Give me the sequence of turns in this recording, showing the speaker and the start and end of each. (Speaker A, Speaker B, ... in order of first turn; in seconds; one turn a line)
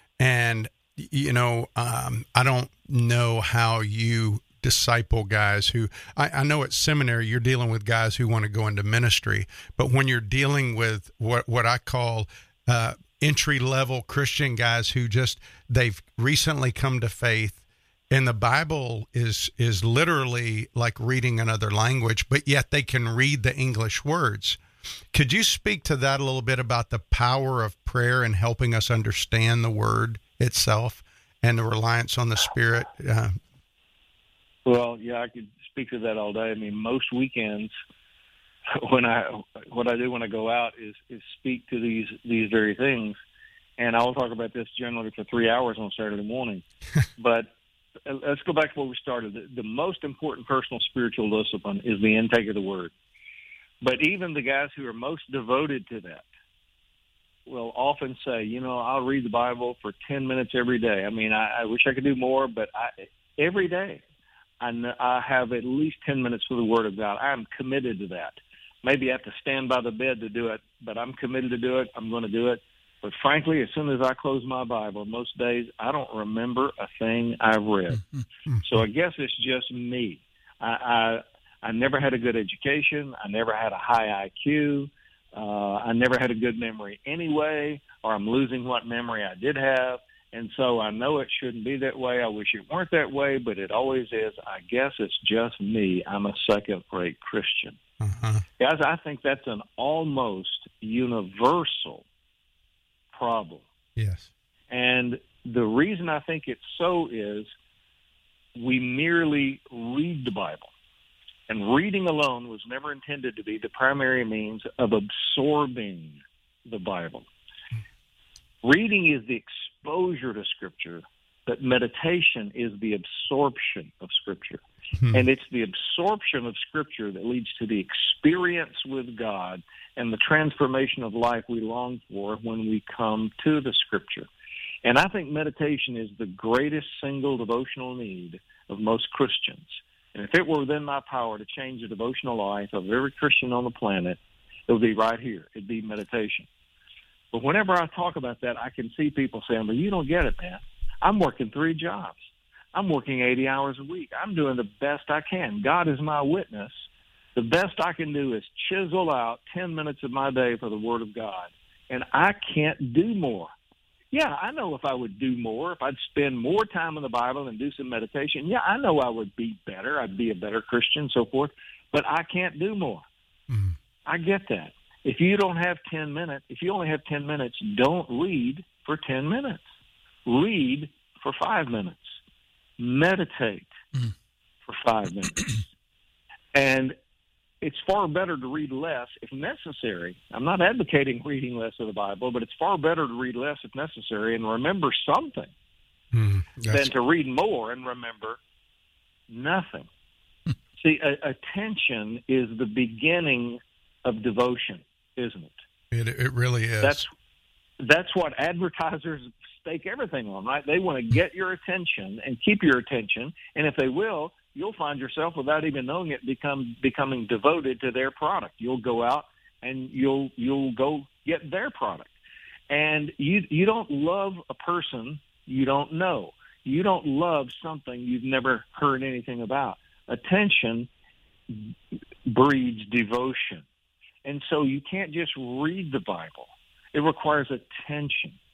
Speaker A: 0.2-24.6
Speaker A: 25.1-33.4
Speaker B: 34.6-37.7
Speaker B: 38.7-43.2
Speaker B: 43.8-46.6
Speaker B: 47.2-47.5
Speaker B: 48.0-52.9
Speaker B: 53.8-56.2
Speaker B: 57.5-64.0
Speaker B: 64.6-78.0
Speaker B: 78.6-97.8
Speaker A: 98.0-98.4
Speaker B: 98.6-102.0
Speaker B: 103.1-103.7
Speaker A: 104.0-104.3
Speaker B: 104.7-107.5
Speaker B: 108.5-110.7
Speaker B: 111.5-117.3
Speaker B: 118.6-134.3
Speaker B: 134.8-146.5
Speaker B: 147.3-152.2
Speaker B: 152.7-156.7
Speaker B: 157.3-163.5
Speaker B: 164.1-173.0
Speaker A: 173.5-173.8
Speaker B: 174.1-179.6
Speaker B: 180.2-182.2
Speaker B: 182.8-183.7
Speaker B: 184.7-185.6
Speaker B: 186.5-186.9
Speaker B: 187.6-195.5
Speaker A: 196.1-196.9
Speaker B: 196.7-198.4
Speaker B: 199.3-199.9
Speaker B: 200.8-205.6
Speaker A: 205.9-207.0
Speaker B: 206.8-207.1
Speaker B: 207.8-222.1
Speaker B: 222.7-230.9
Speaker B: 232.2-233.6
Speaker B: 234.2-238.4